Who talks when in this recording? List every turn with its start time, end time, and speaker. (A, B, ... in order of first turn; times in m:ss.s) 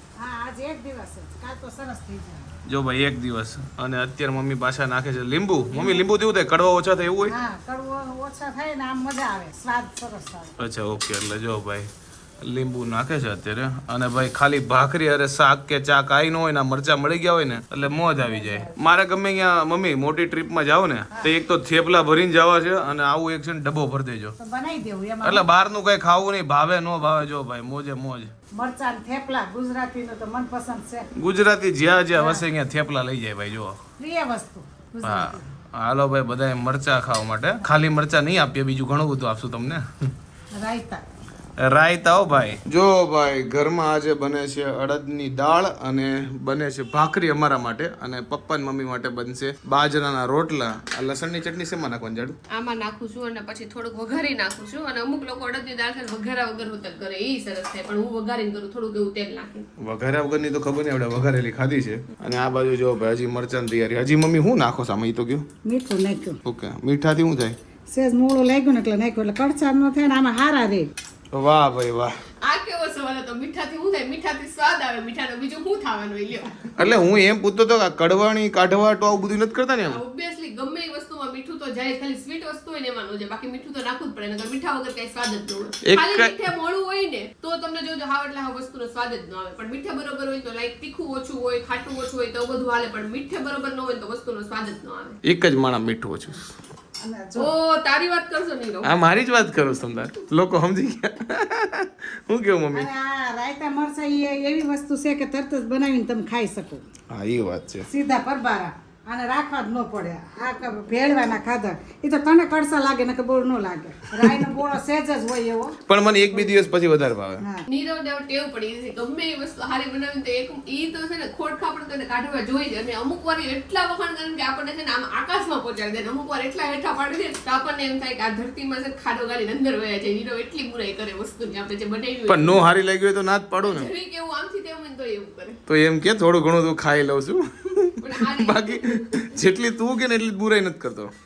0:00.2-0:02.5 A
0:02.7-0:07.4 B
0:05.7-0:06.1 A
0:07.2-0:10.5 A
0:10.6-0:11.9 B
0:12.4-0:24.4 B
0:18.3-0:18.7 A
0:24.4-0:25.5 A
0:25.2-0:28.3 B
0:28.6-0:31.1 A
0:31.2-0:33.8 B
0:32.1-0:32.4 A
0:34.0-0:35.5 A
0:35.0-0:39.9 B
0:40.5-0:41.0 A
0:41.6-0:52.4 B
0:52.5-0:59.7 C
0:59.8-1:05.5 B
1:05.6-1:06.4 A
1:06.4-1:07.6 B
1:07.9-1:10.9 A
1:11.3-1:12.1 B
1:12.4-1:16.7 C
1:16.8-1:20.0 B
1:19.9-1:35.2 C
1:25.8-1:26.4 B
1:35.2-1:36.4 B
1:37.0-1:37.5 A
1:37.4-1:38.9 C
1:38.8-1:42.9 B
1:42.7-1:46.8 A
1:47.1-1:47.9 B
1:47.9-1:55.8 A
1:54.2-1:54.5 B
1:55.9-1:57.4 B
1:57.7-2:12.6 C
2:12.3-2:13.9 B
2:13.6-2:15.6 C
2:15.7-2:21.1 B
2:18.0-2:19.1 C